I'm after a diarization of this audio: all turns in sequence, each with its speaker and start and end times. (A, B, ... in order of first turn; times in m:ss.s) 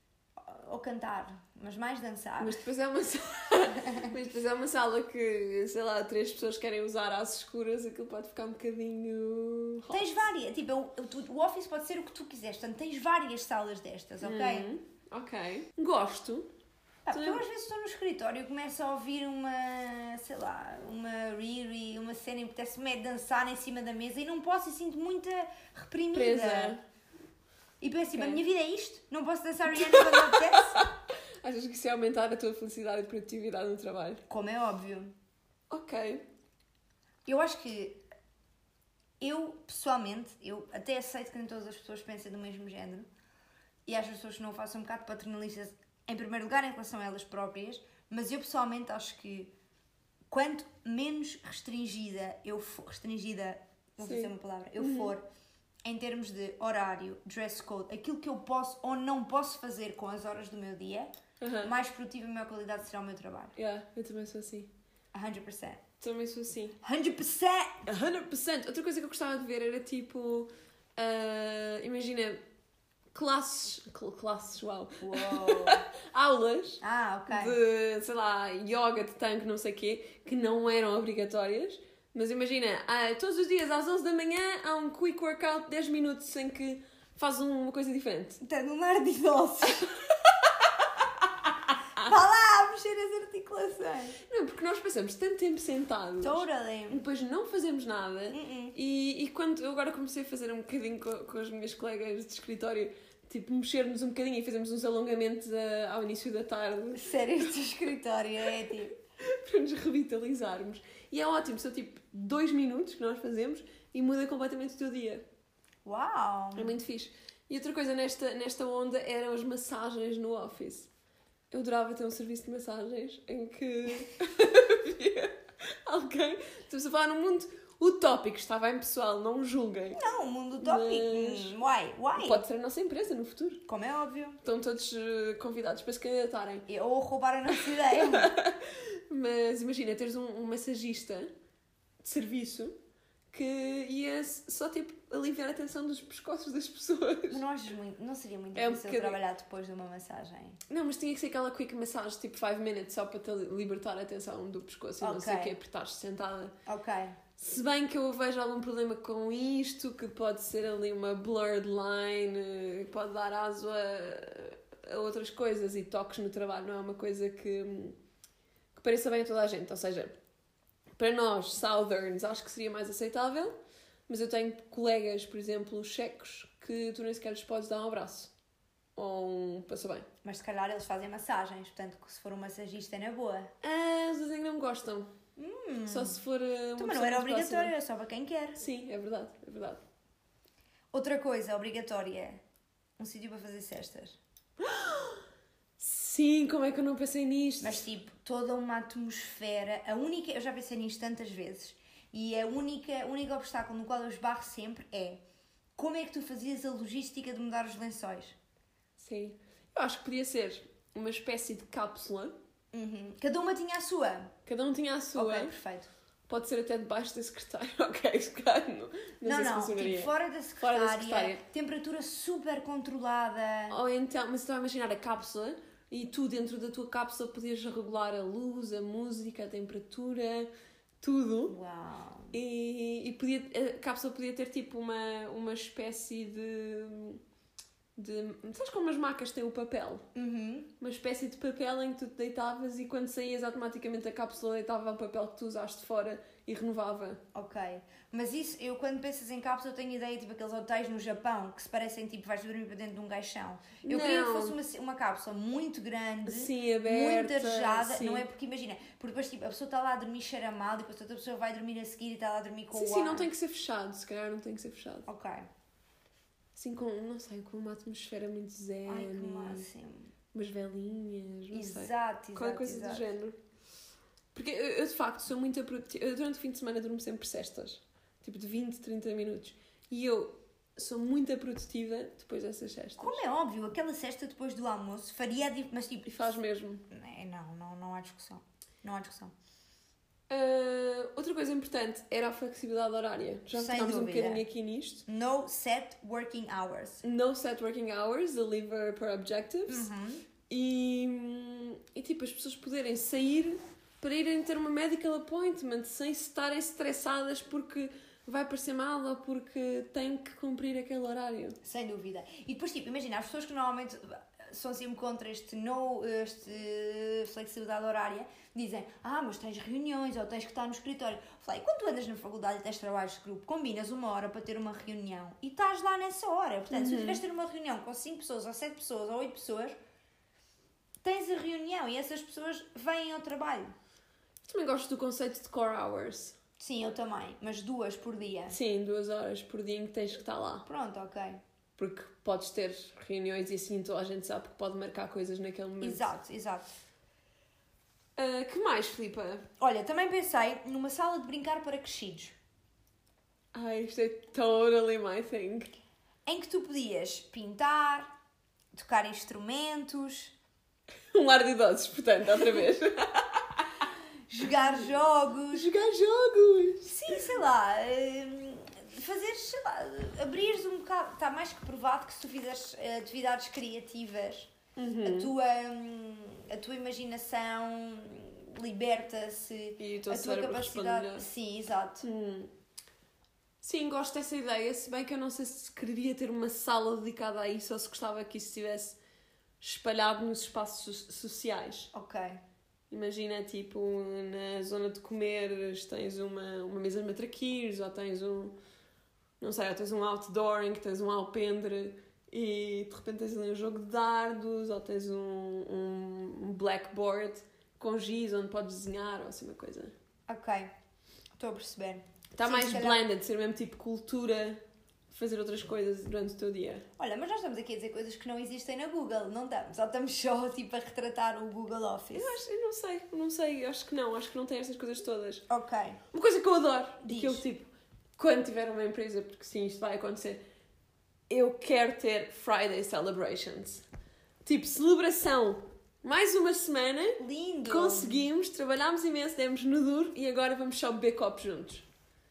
0:00.4-0:02.6 A
0:02.4-0:10.0 B
0:03.7-0:04.1 A
0:09.9-0:14.7 A
0:14.2-0:16.5 B
0:17.1-0:26.8 A
0:17.1-0:17.4 B
0:26.1-0:26.8 B
0:27.8-0:30.9 A
0:28.1-0:28.4 B
0:29.7-0:30.9 B
0:31.4-0:34.2 B
0:34.3-0:35.1 A
0:35.7-0:36.2 B
0:37.2-0:38.0 A
0:39.2-0:43.1 A
0:43.8-0:49.5 A
0:50.3-0:55.2 A
0:54.0-0:55.1 B
0:55.8-1:01.1 A
1:01.4-1:01.7 B
1:01.6-1:03.5 A
1:03.6-1:04.7 B
1:05.1-1:05.8 A
1:06.0-1:06.8 B
1:06.8-1:07.8 A
1:07.8-1:12.4 B
1:13.1-1:28.4 B
1:15.0-1:15.8 A
1:16.8-1:17.6 A
1:28.4-1:29.9 A
1:32.0-1:34.2 A
1:34.2-1:47.1 B
1:36.2-1:37.0 A
1:38.3-1:38.8 A
1:46.9-1:49.0 A
1:49.2-1:55.2 B
1:55.8-1:56.8 A
1:56.5-2:00.9 B
2:01.5-2:10.0 B
2:09.9-2:12.4 A
2:10.6-2:11.6 B
2:12.2-2:13.6 B
2:13.7-2:14.4 A
2:14.4-2:16.6 B
2:16.7-2:18.3 A
2:17.5-2:21.3 B
2:22.0-2:22.8 B
2:23.3-2:27.4 B
2:27.3-2:30.6 A
2:28.5-2:29.2 B
2:30.7-2:36.6 B
2:35.0-2:35.6 A
2:36.7-2:37.2 A
2:37.4-2:48.0 B
2:48.7-2:50.2 B
2:51.0-2:53.6 B
2:54.1-2:58.3 B
2:59.0-3:00.1 B
3:00.2-3:03.5 A
3:03.6-3:05.1 B
3:05.4-3:06.2 A
3:05.9-3:07.7 B
3:06.8-3:08.6 A
3:08.6-3:09.8 B
3:10.9-3:12.4 A
3:13.0-3:14.2 A
3:14.6-3:15.2 B
3:15.8-3:17.8 B
3:17.6-3:25.2 A
3:25.8-3:28.4 A
3:29.0-3:32.3 B
3:32.7-3:34.3 A
3:34.4-3:35.5 B
3:35.1-3:35.9 A
3:36.3-3:41.4 B
3:39.2-3:43.8 A
3:43.7-3:50.5 B
3:51.0-3:51.6 B
3:51.5-3:52.4 A
3:52.3-3:57.2 B
3:58.0-4:00.1 B
4:00.2-4:00.7 A
4:00.8-4:07.2 B
4:07.3-4:23.3 A
4:13.8-4:14.6 B
4:16.2-4:18.3 B
4:22.7-4:25.1 B
4:25.1-4:25.5 A
4:26.6-4:29.7 B
4:28.8-4:30.1 A
4:30.3-4:33.4 B
4:31.5-4:33.1 A
4:34.3-4:43.2 B
4:43.0-4:46.3 A
4:46.1-4:46.8 B
4:46.9-4:49.3 A
4:50.3-4:55.0 B
4:53.5-4:54.4 A
4:55.1-4:57.0 A
4:57.0-4:59.9 B
4:59.7-5:00.2 A
5:00.5-5:11.6 B
5:11.6-5:29.8 A
5:26.7-5:27.2 B
5:31.0-5:33.7 A
5:34.4-5:36.4 B
5:36.6-5:38.6 A
5:38.5-5:40.7 B
5:40.7-5:41.4 A
5:41.8-5:46.1 B
5:45.8-5:46.7 A
5:48.2-5:49.4 B
5:49.6-5:52.4 A
5:53.5-5:55.7 B
5:56.2-5:58.1 A
5:58.7-6:00.3 A
6:01.1-6:03.7 B
6:04.3-6:05.7 A
6:05.5-6:07.2 B
6:06.8-6:22.0 A
6:14.8-6:15.3 B
6:19.8-6:21.2 B
6:22.0-6:22.5 B
6:23.6-6:29.0 B
6:29.6-6:31.9 B
6:31.9-6:32.4 A
6:32.9-6:38.6 B
6:39.4-6:49.9 B
6:50.3-6:50.7 A
6:51.4-6:53.1 A
6:52.3-6:56.8 B
6:57.0-7:02.4 A
7:02.1-7:05.4 B
7:05.5-7:06.0 A
7:06.1-7:10.4 B
7:07.0-7:07.4 A
7:11.3-7:13.8 B
7:14.4-7:21.8 B
7:17.2-7:18.2 A